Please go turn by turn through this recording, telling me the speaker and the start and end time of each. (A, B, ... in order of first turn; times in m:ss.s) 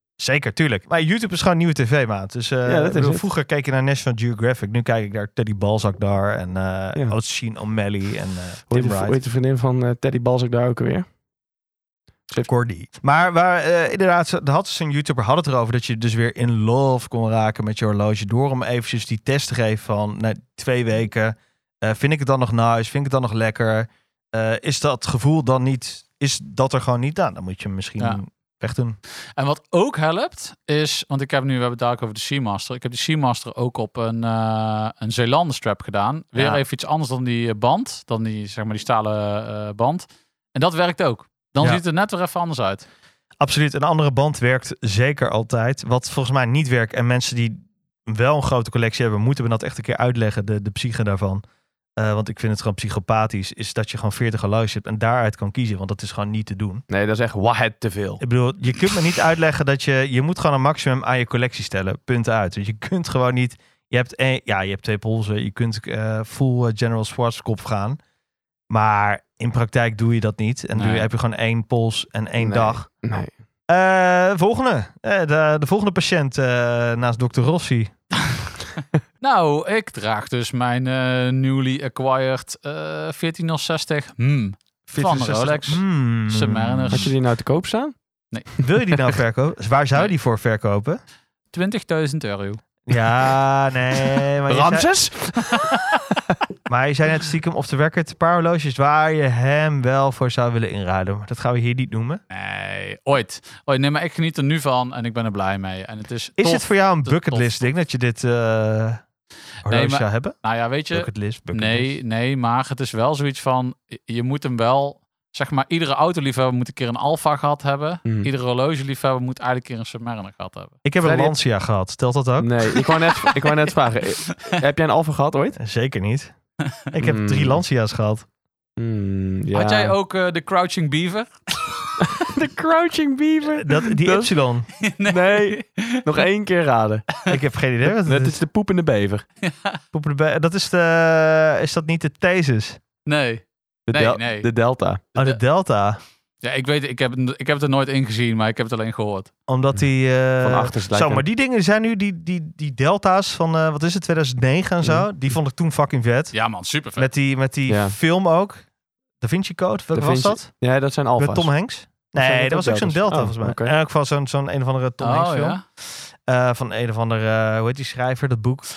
0:00.2-0:09.2 A
0:02.6-0:03.3 B
0:08.7-0:11.0 B
0:12.3-0:29.0 A
0:29.4-0:42.8 C
0:36.3-0:36.6 A
0:43.4-0:51.4 A
0:52.0-0:56.8 A
0:56.9-0:58.2 B
0:58.2-1:08.0 A
1:08.7-1:12.9 A
1:10.7-1:11.1 C
1:12.4-1:13.3 B
1:13.7-1:17.9 A
1:18.2-1:18.6 C
1:19.2-1:27.1 C
1:24.9-1:27.1 A
1:26.9-1:27.9 B
1:28.6-1:31.0 A
1:31.5-1:32.6 C
1:32.9-1:34.9 A
1:34.5-1:35.8 B
1:36.7-1:42.2 A
1:42.3-1:47.7 C
1:46.4-1:49.0 A
1:49.6-1:50.4 A
1:49.6-2:00.8 C
1:50.9-1:51.9 A
1:58.0-1:58.3 B
2:00.8-2:02.7 A
2:01.0-2:01.3 B
2:02.4-2:05.6 B
2:03.3-2:03.7 C
2:04.3-2:04.6 C
2:05.6-2:06.3 A
2:06.9-2:08.2 A
2:07.0-2:07.6 B
2:08.8-2:09.9 B
2:09.5-2:12.1 C
2:12.0-2:14.3 B
2:13.5-2:14.7 A
2:14.8-2:16.0 C
2:15.0-2:17.1 B
2:17.3-2:18.4 A
2:17.8-2:19.2 B
2:19.4-2:19.8 C
2:19.9-2:22.8 A
2:23.0-2:24.5 C
2:23.9-2:25.0 B
2:25.1-2:26.0 A
2:26.4-2:29.3 C
2:29.5-2:36.4 A
2:30.4-2:31.2 B
2:36.3-2:37.1 C
2:37.0-2:38.6 A
2:37.7-2:38.0 B
2:39.2-2:40.5 A
2:39.9-2:41.5 B
2:41.2-2:48.7 A
2:42.2-2:43.7 B
2:45.0-2:45.6 C